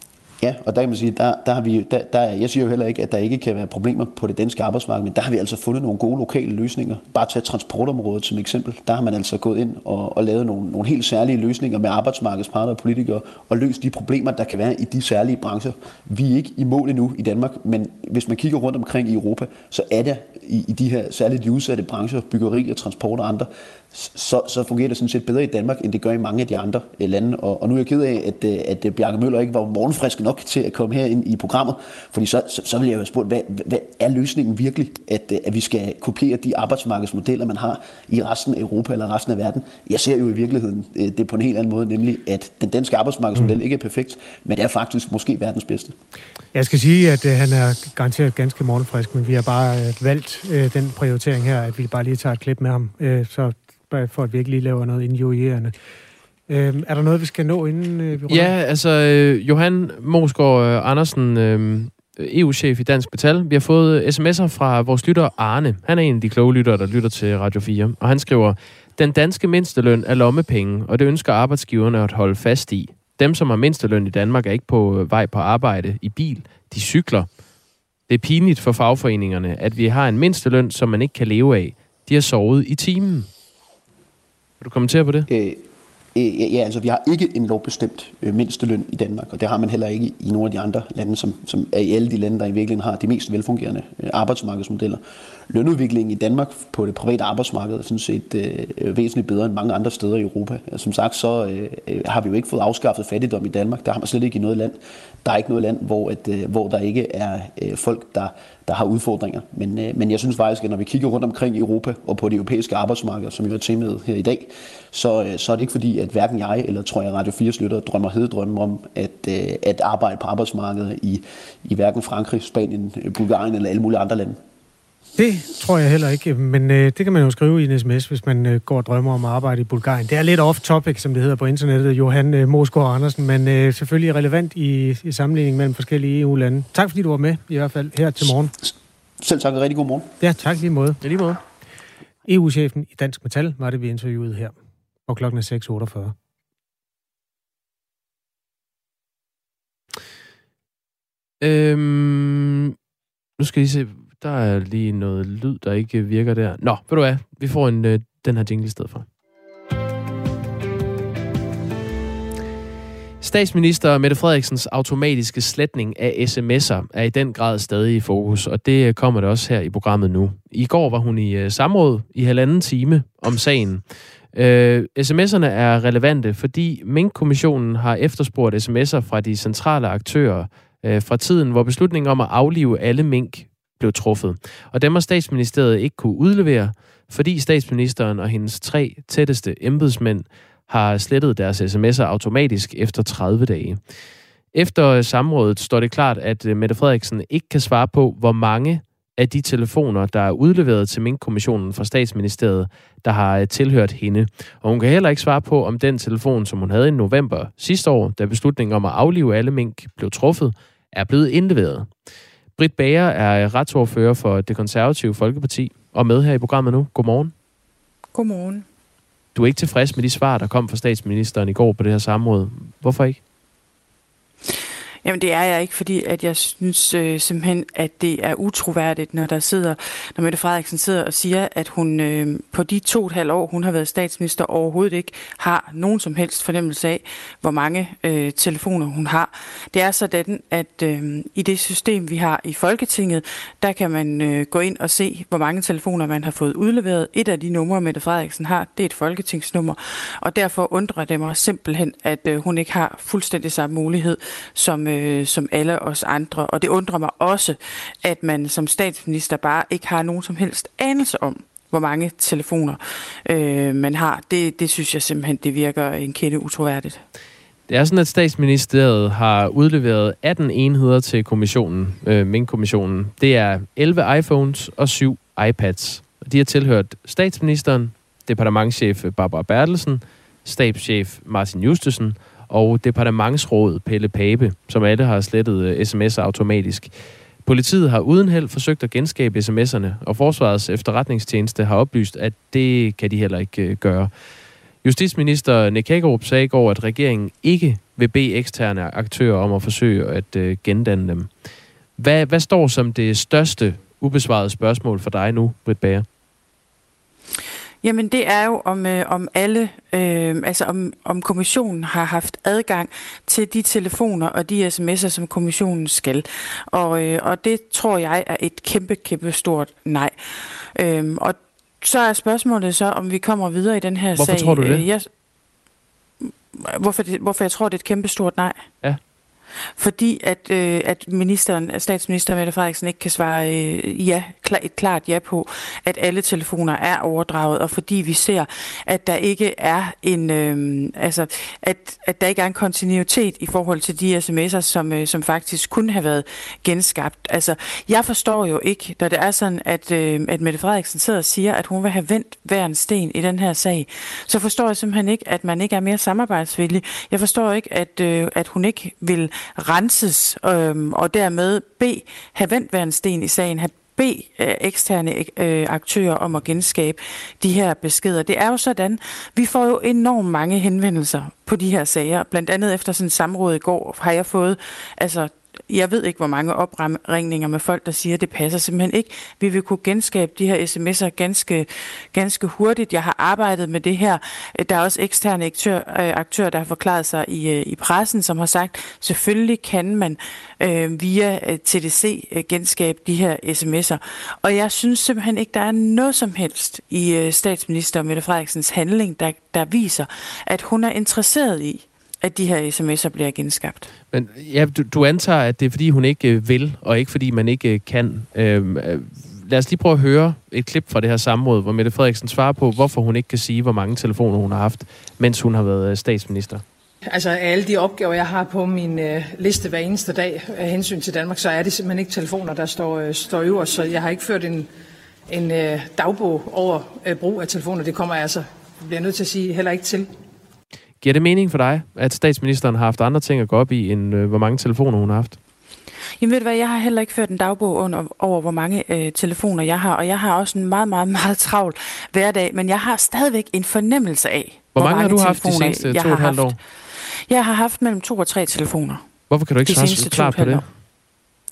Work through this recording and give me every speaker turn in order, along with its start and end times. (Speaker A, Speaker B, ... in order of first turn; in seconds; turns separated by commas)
Speaker A: 0.4-46.0, Speaker B: 46.5-55.8, Speaker B: 56.5-58.5, Speaker C: 58.3-77.3, Speaker C: 78.1-83.3, Speaker C: 84.6-85.3, Speaker A: 85.3-85.6, Speaker A: 86.2-124.4, Speaker B: 125.2-138.5, Speaker A: 139.2-140.1, Speaker B: 140.2-141.0, Speaker C: 141.0-141.4, Speaker B: 142.3-144.6, Speaker B: 145.1-146.2, Speaker C: 151.4-152.8, Speaker C: 153.4-159.1, Speaker C: 163.2-193.8, Speaker C: 194.5-211.9, Speaker C: 212.6-217.3, Speaker D: 218.1-218.7, Speaker C: 219.3-223.2, Speaker D: 225.0-267.0, Speaker C: 267.7-294.1, Speaker C: 294.8-301.4, Speaker C: 302.0-306.1, Speaker D: 307.8-325.1, Speaker C: 324.2-324.8, Speaker D: 326.2-328.7, Speaker D: 329.8-403.9, Speaker C: 404.1-416.6, Speaker E: 417.1-424.7, Speaker E: 425.3-430.1, Speaker C: 431.0-435.4, Speaker D: 436.2-449.1, Speaker C: 444.8-446.6, Speaker C: 449.3-450.6, Speaker D: 449.6-450.6